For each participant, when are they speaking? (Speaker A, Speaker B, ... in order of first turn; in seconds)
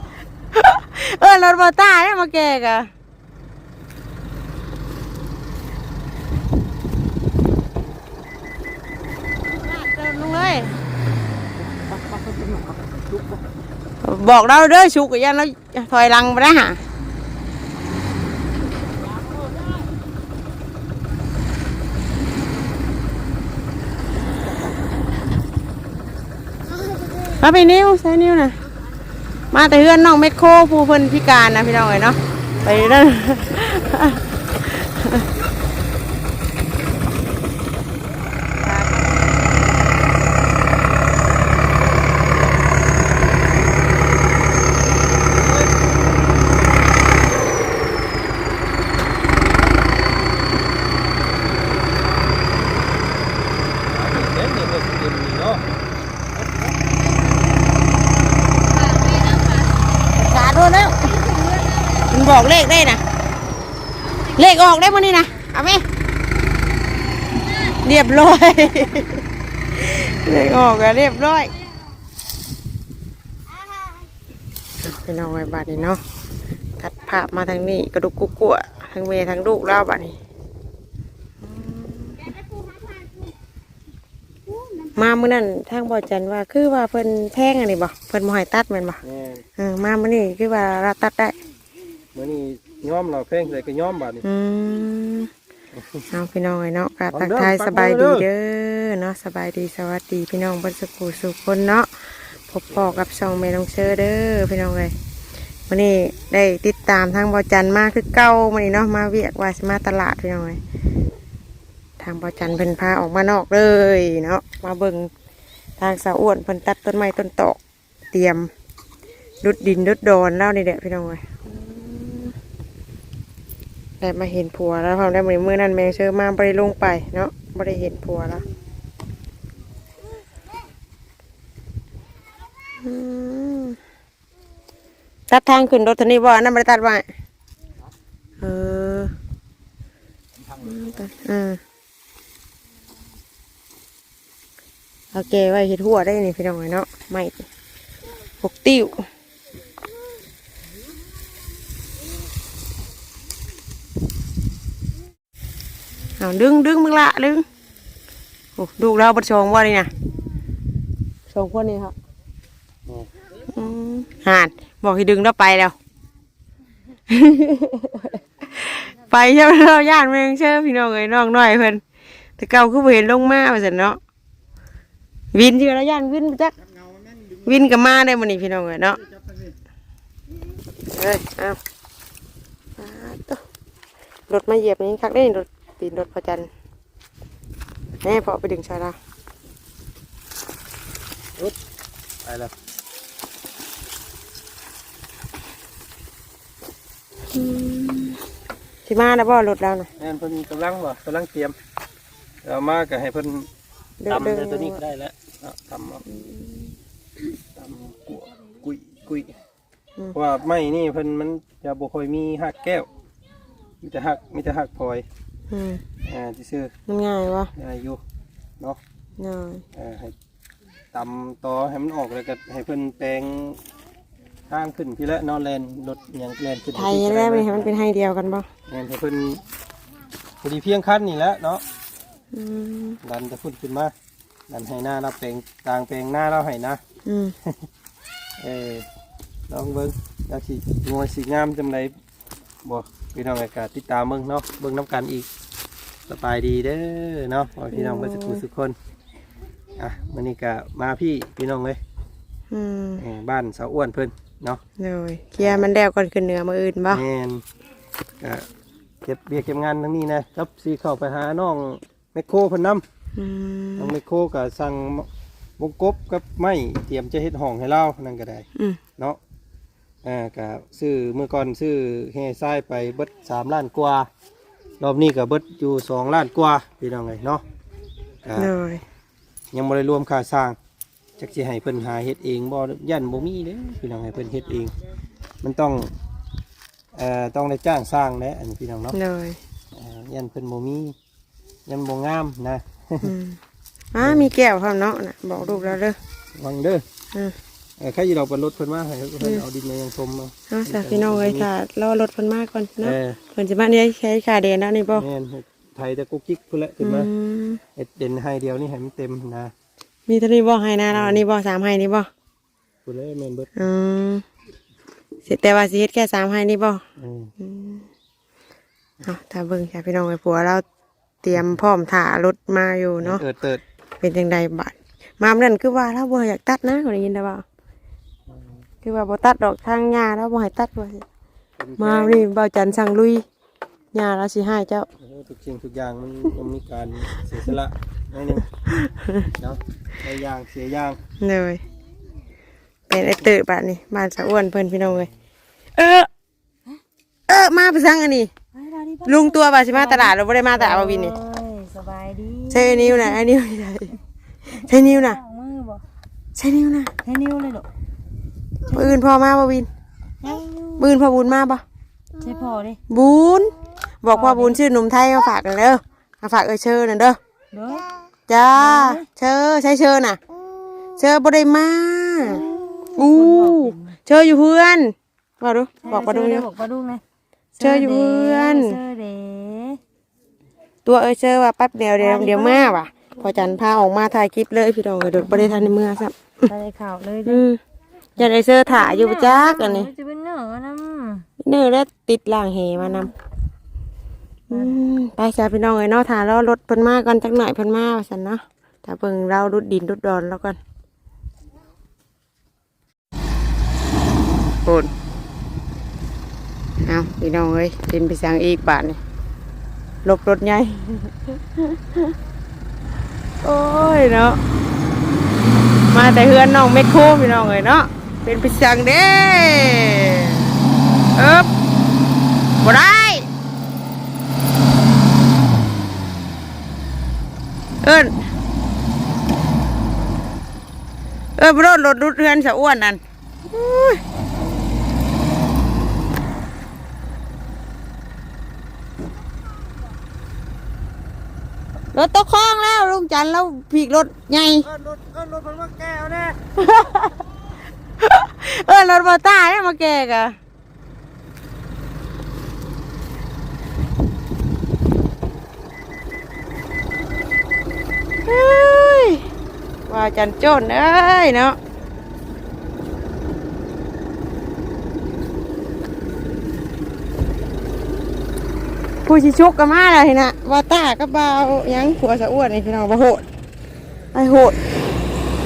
Speaker A: 0.5-2.9, 9.6-10.7, 14.0-16.8, 27.4-28.5, 29.5-35.2, 38.6-39.0, 60.1-61.2, 61.9-63.0, 64.2-65.8, 67.7-69.2, 69.7-71.5, 74.8-76.0, 76.8-80.2, 81.4-82.3, 84.9-89.0, 89.5-91.3, 94.2-95.3, 96.1-101.9, 102.5-104.9, 105.7-110.6, 112.0-115.1, 115.8-117.6, 118.1-118.5, 119.4-122.3, 124.0-128.4, 132.8-133.8, 135.3-137.1, 138.4-139.1, 140.6-141.6, 145.1-147.4, 148.4-149.1, 156.2-157.4, 158.6-159.9, 161.3-161.9, 163.5-165.7, 167.1-171.8, 172.4-174.0, 175.3-176.5, 177.4-179.0, 180.9-181.6, 182.8-183.4, 184.3-186.5, 188.0-188.9, 197.3-198.2, 198.8-199.9, 204.0-204.8, 206.1-206.7, 215.5-215.8, 216.9-217.5, 219.2-219.6, 226.7-228.5, 232.3-233.0, 237.0-237.3, 247.7-248.4, 252.5-253.0, 254.8-257.0, 263.1-263.9, 278.4-278.8, 288.9-289.4, 293.0-293.4, 293.9-296.0, 299.2-299.4, 300.5-305.1, 306.8-307.6, 310.1-312.1, 313.5-314.2, 315.2-316.8, 317.4-317.8, 319.0-320.6, 321.2-323.2, 324.0-327.4, 328.8-331.0, 331.8-333.2, 333.9-334.9, 338.6-339.2, 341.2-341.6, 342.9-345.1, 345.8-346.1, 347.3-348.3, 349.1-351.1, 352.5-353.9, 354.6-355.2, 356.4-356.9, 358.7-359.7, 360.8-361.6, 362.9-367.2, 368.3-370.2, 371.0-372.4, 372.9-376.5, 377.6-378.8, 380.8-386.5, 387.2-387.6, 388.2-389.9, 391.4-393.1, 394.5-400.6, 404.6-404.9, 406.8-409.0, 410.0-412.1, 413.4-414.4, 415.9-420.5, 421.1-421.5, 422.6-423.2, 427.8-428.1, 431.4-434.0, 441.9-444.7, 446.6-447.1, 448.0-450.4, 458.2-459.2, 459.9-461.6, 469.0-473.2, 474.1-474.6
Speaker B: 53.8-55.6, 89.0-89.4, 92.1-94.2, 95.8-96.0, 97.1-98.3, 192.2-192.5, 200.0-201.6, 202.4-203.5, 204.1-206.0, 207.6-209.3, 210.1-212.9, 213.8-215.0, 216.0-216.7, 217.5-218.0, 219.7-220.1, 220.9-223.6, 224.5-227.7, 228.7-229.4, 230.4-231.6, 233.0-233.9, 234.5-236.8, 238.4-238.8, 239.5-241.9, 242.6-245.3, 246.1-248.7, 249.8-251.8, 253.0-254.6, 255.4-255.7, 256.9-257.4, 258.2-258.4, 259.0-262.8, 263.8-265.1, 265.6-268.5, 270.0-274.1, 274.8-277.4, 278.2-278.5, 279.5-280.6, 281.2-284.7, 285.4-285.9, 286.9-288.9, 289.7-290.9, 291.7-293.1, 294.0-294.3, 295.4-295.8, 296.4-296.8, 297.8-301.5, 302.8-303.2, 304.9-307.1, 307.8-309.5, 310.9-311.2, 312.9-313.5, 317.0-317.3, 323.0-323.6, 331.6-332.3, 335.0-338.4, 339.4-341.0, 445.4-446.3
Speaker C: 58.8-59.7, 61.3-61.9, 348.5-353.2, 354.5-355.8, 357.0-357.7, 358.7-358.9, 360.2-360.9, 362.2-362.8, 364.1-364.6, 367.5-367.9, 368.5-369.0, 372.3-373.9, 375.8-377.0, 377.5-379.8, 382.0-382.8, 386.5-387.4, 388.2-391.3